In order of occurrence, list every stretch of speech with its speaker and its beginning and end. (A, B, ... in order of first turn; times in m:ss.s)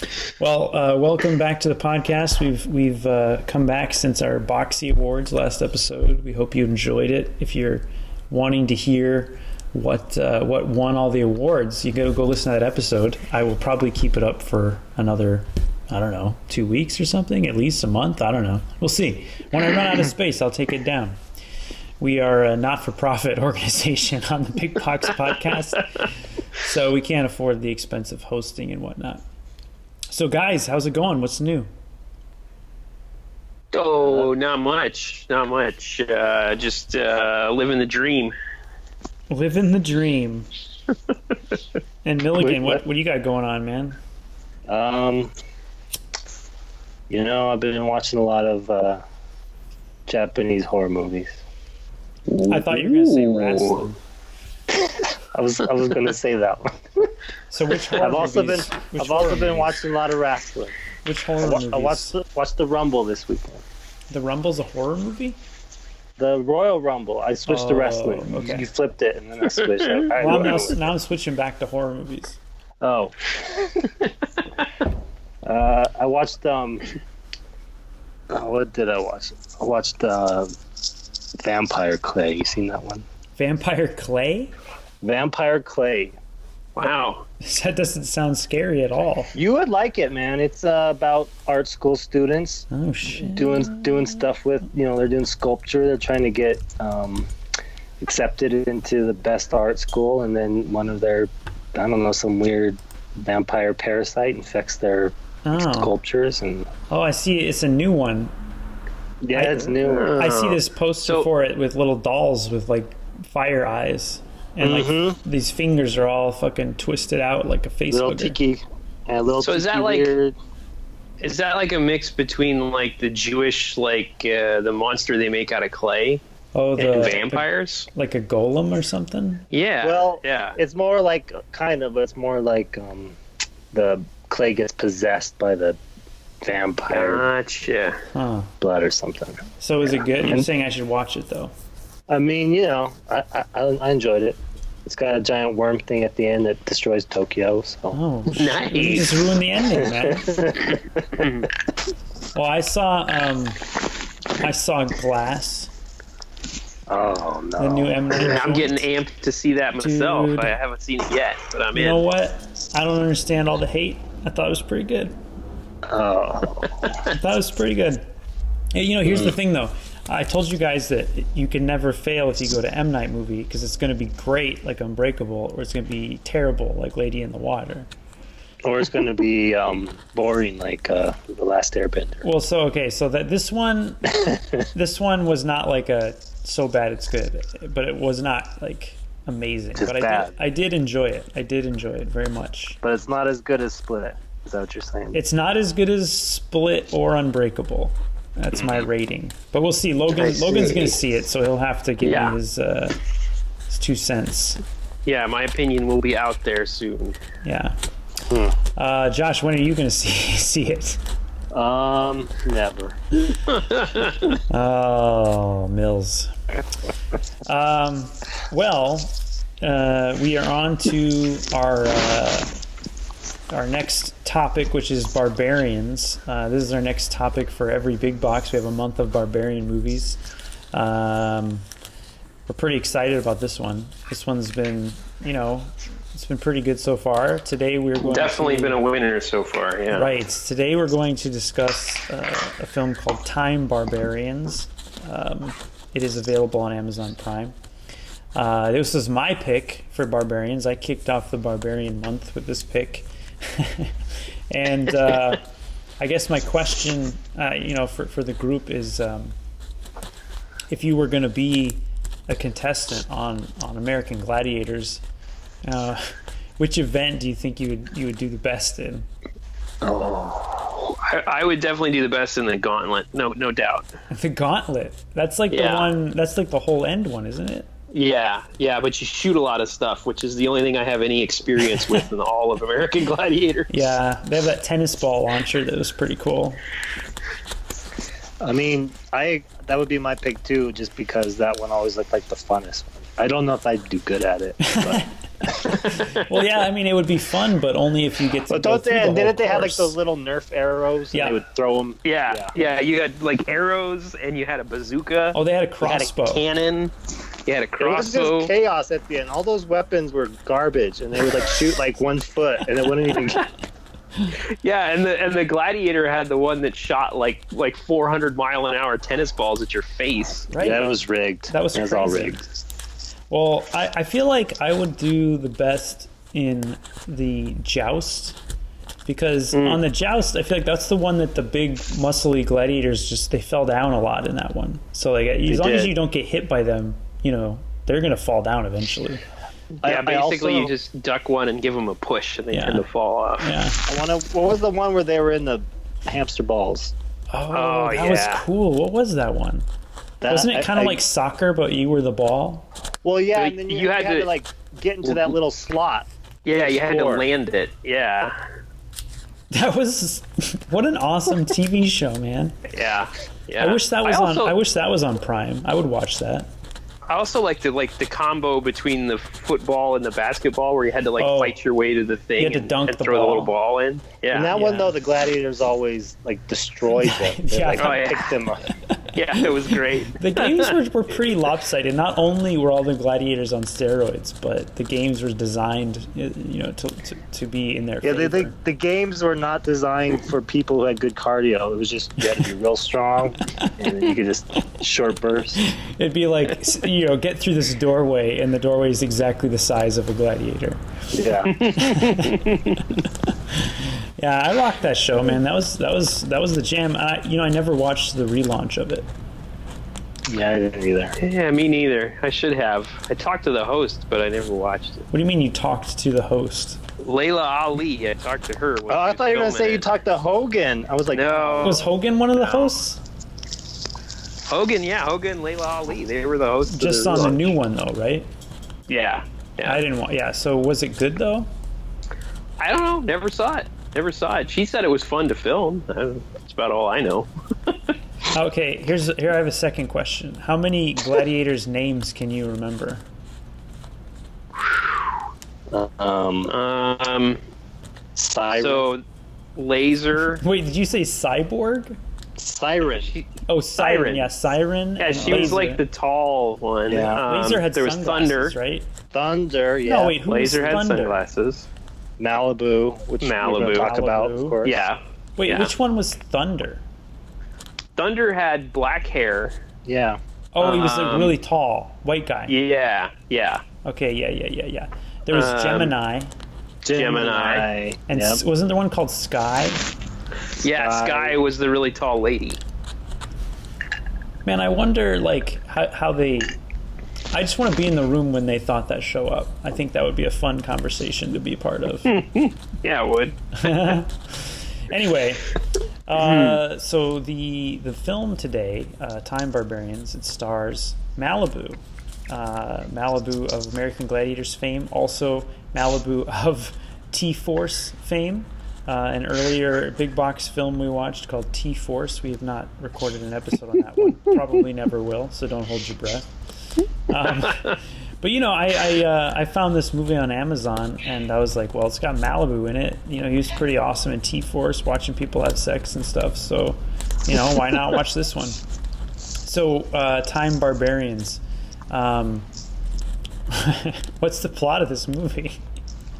0:00.4-0:21.2 A
0:22.0-0:25.9 A
0:26.6-0:29.2 A
0:30.1-0:31.7 A
0:33.7-0:38.4 B
0:34.0-0:34.3 C
0:39.3-0:40.5 A
0:42.0-0:44.0 A
0:42.4-0:42.8 C
0:44.7-0:45.3 C
0:47.1-0:49.0 C
0:50.1-0:51.4 C
0:52.3-0:53.8 B
0:52.5-0:54.0 A
0:54.7-0:57.1 C
0:57.5-0:59.8 A
0:58.0-1:00.8 C
1:01.0-1:02.2 A
1:01.4-1:03.6 C
1:04.1-1:05.4 A
1:06.2-1:10.9 C
1:07.5-1:08.7 A
1:10.1-1:12.4 A
1:12.8-1:13.2 C
1:15.5-1:16.9 C
1:18.3-1:20.5 C
1:21.4-1:23.1 C
1:23.4-1:24.5 A
1:25.0-1:26.2 C
1:26.8-1:27.2 B
1:27.4-1:29.3 A
1:29.3-1:37.3 C
1:32.7-1:34.2 A
1:38.0-1:46.7 C
1:45.4-1:46.0 A
1:46.9-1:48.3 A
1:49.2-1:50.2 C
1:49.4-1:58.4 A
1:49.8-1:51.3 B
1:54.6-1:55.2 C
1:57.9-2:00.4 C
1:59.4-2:00.1 B
2:01.2-2:06.2 B
2:06.6-2:09.4 A
2:06.8-2:07.9 B
2:09.5-2:10.6 B
2:09.8-2:13.2 C
2:13.7-2:15.8 C
2:16.4-2:17.2 C
2:16.9-2:18.0 B
2:18.1-2:18.5 A
2:18.6-2:19.4 C
2:19.6-2:21.5 A
2:20.2-2:20.5 C
2:22.1-2:28.0 C
2:27.9-2:30.4 A
2:28.3-2:29.1 B
2:29.8-2:31.2 C
2:31.2-2:31.5 B
2:32.4-2:33.6 A
2:34.4-2:35.7 A
2:36.9-2:38.2 C
2:37.6-2:38.8 A
2:38.1-2:42.0 B
2:39.8-2:40.5 A
2:41.7-2:45.2 A
2:45.9-2:47.0 C
2:47.1-2:48.0 A
2:48.7-2:57.9 A
2:49.1-2:49.3 C
2:58.6-3:02.2 C
3:02.2-3:04.2 A
3:04.7-3:12.8 A
3:09.8-3:10.3 C
3:12.8-3:15.2 C
3:15.1-3:23.0 A
3:20.1-3:21.0 B
3:22.0-3:22.4 B
3:23.7-3:24.6 A
3:25.0-3:27.2 B
3:27.4-3:27.8 A
3:28.3-3:28.6 C
3:28.8-3:31.0 A
3:31.5-3:33.0 C
3:33.5-3:34.4 B
3:34.5-3:36.3 A
3:37.5-3:42.5 A
3:43.5-3:50.2 A
3:50.7-3:51.6 A
3:52.5-3:58.8 A
3:58.0-4:00.1 B
3:59.9-4:07.5 A
4:08.4-4:13.9 A
4:14.5-4:15.4 A
4:16.0-4:19.4 A
4:20.7-4:25.0 A
4:25.6-4:29.1 A
4:29.8-4:30.8 C
4:30.8-4:33.9 B
4:34.1-4:37.7 A
4:35.5-4:35.9 B
4:37.9-4:43.7 B
4:43.7-4:46.6 A
4:48.4-4:55.6 C
4:54.6-5:00.0 A
4:58.5-5:02.6 C
5:01.1-5:01.4 A
5:02.0-5:06.9 B
5:05.3-5:06.4 A
5:07.5-5:08.5 B
5:07.8-5:13.4 C
5:14.4-5:20.5 B
5:20.5-5:20.9 A
5:20.6-5:22.4 C
5:21.5-5:22.5 A
5:23.3-5:28.4 A
5:29.1-5:39.2 A
5:29.5-5:29.8 B
5:35.5-5:35.9 C
5:39.8-5:40.7 C
5:39.8-5:43.5 B
5:42.5-5:42.8 A
5:43.4-5:43.8 A
5:43.9-5:46.9 C
5:47.3-5:49.6 A
5:47.5-5:48.4 B
5:50.2-5:51.0 C
5:50.3-5:52.7 A
5:53.0-5:56.1 C
5:53.4-5:54.3 B
5:56.4-5:58.4 B
5:56.6-5:57.3 C
5:59.5-6:02.6 A
6:02.7-6:04.5 B
6:03.6-6:06.5 A
6:07.1-6:14.5 B
6:11.2-6:11.6 A
6:12.4-6:13.5 A
6:14.3-6:18.6 C
6:14.5-6:15.0 A
6:17.0-6:18.2 A
6:17.8-6:18.4 B
6:19.2-6:20.7 B
6:20.1-6:28.6 A
6:28.0-6:35.6 C
6:35.6-6:40.8 A
6:41.1-6:41.6 C
6:41.5-6:43.0 B
6:41.8-6:42.6 A
6:43.3-6:49.1 A
6:50.3-6:51.2 C
6:51.2-6:55.1 B
6:55.1-6:56.8 A
6:57.0-6:59.9 B
6:58.9-7:01.9 C
7:01.1-7:01.9 B
7:01.6-7:03.0 A
7:02.4-7:02.7 B
7:04.5-7:07.6 B
7:06.7-7:08.3 A
7:08.9-7:09.8 B
7:09.6-7:11.5 A
7:12.6-7:17.9 B
7:18.3-7:23.0 A
7:25.7-7:26.5 C
7:26.5-7:27.4 B
7:28.2-7:28.9 C
7:28.5-7:29.0 B
7:29.6-7:30.4 B
7:30.3-7:32.0 A
7:32.4-7:33.1 C
7:33.0-7:34.3 B
7:33.5-7:35.8 A
7:35.0-7:38.6 B
7:35.1-7:35.6 C
7:36.9-7:37.2 C
7:37.2-7:38.9 A
7:39.1-7:40.9 C
7:39.8-7:41.2 A
7:40.3-7:41.7 B
7:42.2-7:44.8 C
7:43.2-7:43.9 B
7:43.6-7:44.6 A
7:44.6-7:45.7 B
7:45.4-7:46.8 A
7:48.0-7:49.6 B
7:49.8-7:50.2 C
7:50.5-7:52.5 A
7:50.6-7:51.3 B
7:52.5-7:53.6 B
7:53.8-7:56.3 A
7:55.3-7:56.0 B
7:56.8-7:58.4 C
7:56.9-7:57.7 B
7:58.1-7:59.8 A
8:00.6-8:02.6 B
8:00.6-8:01.4 C
8:04.5-8:06.6 A
8:07.3-8:12.2 A
8:12.1-8:13.9 B
8:13.6-8:15.5 A
8:16.1-8:36.3 A
8:16.2-8:16.6 B
8:37.1-8:48.6 A
8:49.4-8:52.5 A
8:53.5-8:55.6 A